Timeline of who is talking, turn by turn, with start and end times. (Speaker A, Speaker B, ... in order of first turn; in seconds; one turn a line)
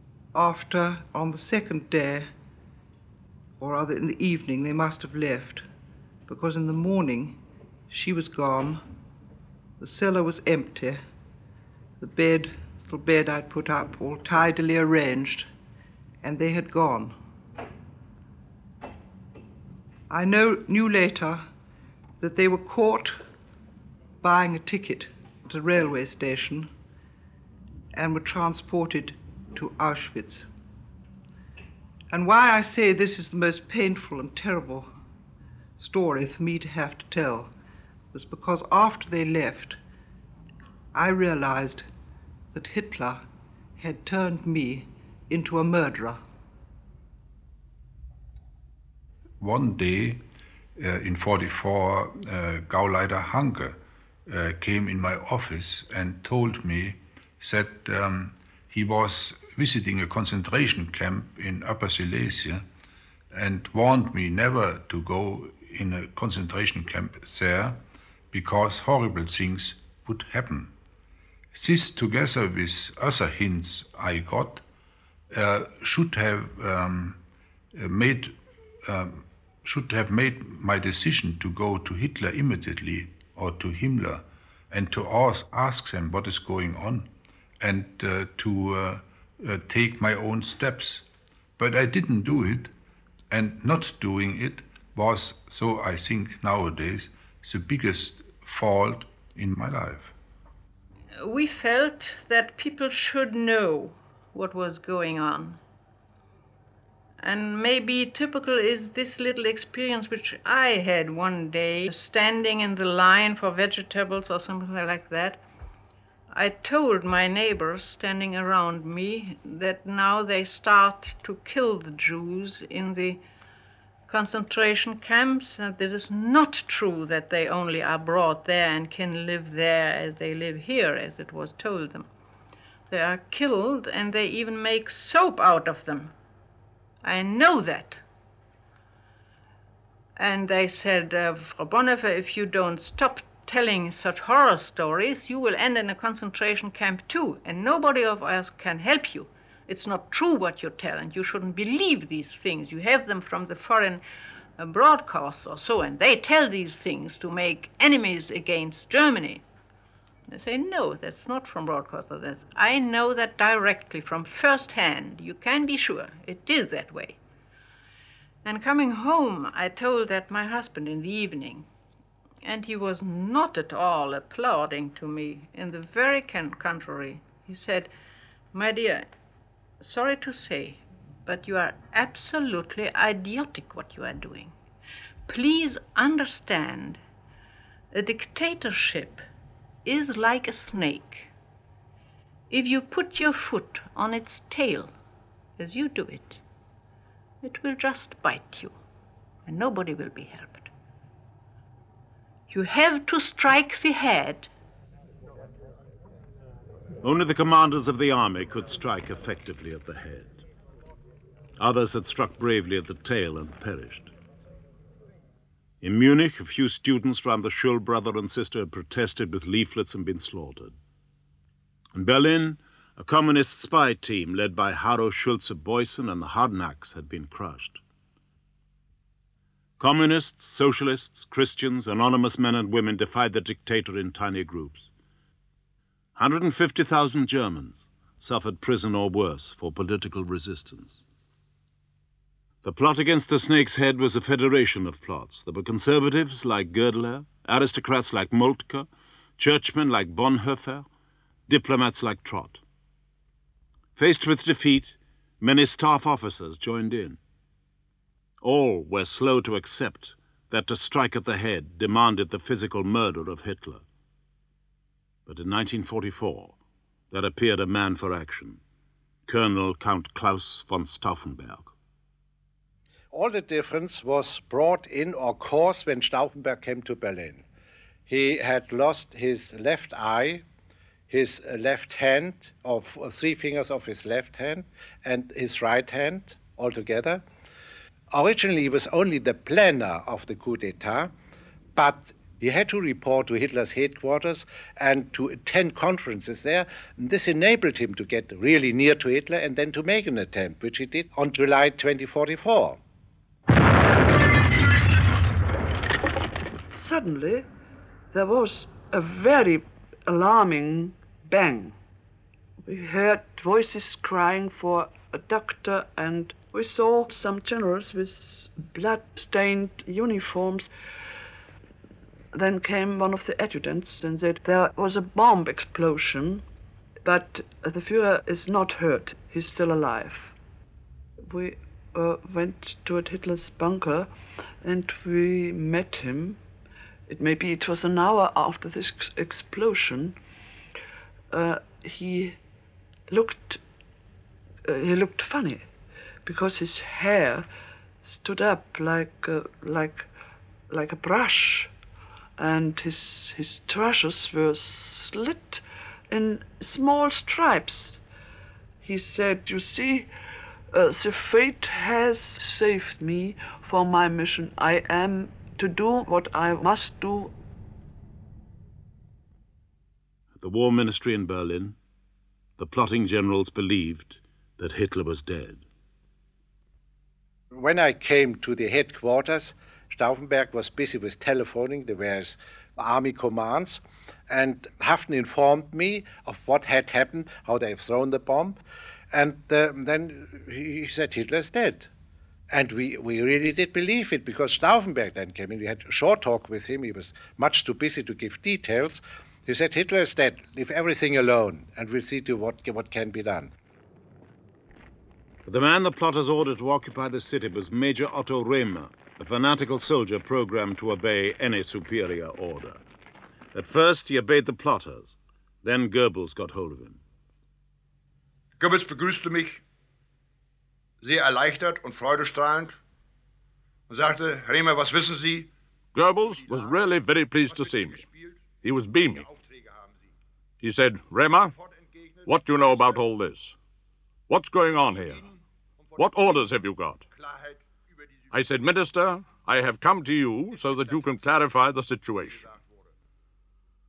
Speaker A: 0.3-2.3
Speaker A: 3.6-5.7
Speaker A: 6.3-7.4
Speaker A: 7.9-8.8
Speaker A: 9.8-11.0
Speaker A: 12.0-15.5
Speaker A: 16.2-17.2
Speaker A: 20.1-21.4
Speaker A: 22.2-23.2
Speaker A: 24.2-26.7
Speaker A: 27.9-30.5
Speaker A: 32.1-34.9
Speaker A: 35.8-37.5
Speaker A: 38.1-39.8
Speaker A: 40.9-41.9
Speaker A: 42.5-43.3
Speaker A: 43.8-46.2
Speaker B: 49.4-50.2
Speaker B: 50.8-62.6
Speaker B: 63.3-67.8
Speaker B: 68.3-70.7
Speaker B: 71.5-74.6
Speaker B: 75.3-77.2
Speaker B: 77.8-87.1
Speaker B: 87.6-91.1
Speaker B: 91.6-92.7
Speaker B: 93.3-100.1
Speaker C: 101.2-105.6
Speaker C: 107.2-115.4
Speaker C: 116.3-123.2
Speaker C: 124.1-132.1
Speaker C: 132.9-136.1
Speaker C: 137.0-138.0
Speaker C: 140.2-154.0
Speaker C: 154.6-159.4
Speaker C: 160.3-167.2
Speaker C: 168.4-171.7
Speaker C: 172.4-177.9
Speaker C: 178.5-179.1
Speaker C: 179.8-184.6
Speaker C: 185.3-187.0
Speaker C: 187.9-189.2
Speaker C: 189.8-191.3
Speaker C: 192.5-194.9
Speaker C: 195.6-196.4
Speaker C: 197.4-198.8
Speaker C: 199.5-200.7
Speaker C: 202.5-204.5
Speaker D: 207.0-210.4
Speaker D: 211.6-214.1
Speaker D: 215.8-220.8
Speaker D: 221.9-227.8
Speaker D: 229.8-234.9
Speaker D: 236.2-241.0
Speaker D: 242.6-248.9
Speaker D: 249.4-250.9
Speaker D: 251.5-252.6
Speaker D: 254.0-257.2
Speaker D: 258.4-263.8
Speaker D: 265.3-266.6
Speaker D: 267.1-268.6
Speaker D: 269.3-271.7
Speaker E: 273.1-277.4
Speaker E: 278.1-280.4
Speaker E: 281.1-287.2
Speaker E: 288.1-291.1
Speaker E: 291.8-302.8
Speaker F: 306.7-307.5
Speaker F: 308.1-311.8
Speaker F: 312.6-320.7
Speaker F: 322.3-326.4
Speaker F: 327.1-330.3
Speaker F: 331.2-334.1
Speaker F: 334.6-336.4
Speaker F: 337.1-340.2
Speaker F: 341.3-342.4
Speaker F: 343.1-343.6
Speaker F: 344.6-345.7
Speaker F: 346.2-347.5
Speaker F: 348.0-350.1
Speaker F: 350.7-351.7
Speaker F: 352.4-358.0
Speaker F: 358.8-360.1
Speaker F: 360.7-367.3
Speaker D: 370.4-371.8
Speaker D: 372.6-375.6
Speaker E: 377.6-388.6
Speaker E: 389.1-391.9
Speaker E: 392.5-403.5
Speaker D: 405.5-412.8
Speaker D: 413.5-417.0
Speaker G: 418.6-419.6
Speaker G: 421.0-422.8
Speaker G: 423.9-425.5
Speaker H: 425.9-428.1
Speaker G: 426.3-430.1
Speaker H: 428.6-429.3
Speaker H: 430.6-431.5
Speaker G: 431.4-433.1
Speaker H: 432.3-433.6
Speaker H: 434.3-435.3
Speaker G: 434.9-436.5
Speaker H: 436.0-437.0
Speaker G: 437.1-438.5
Speaker H: 438.3-442.5
Speaker G: 440.5-441.5
Speaker G: 442.3-442.9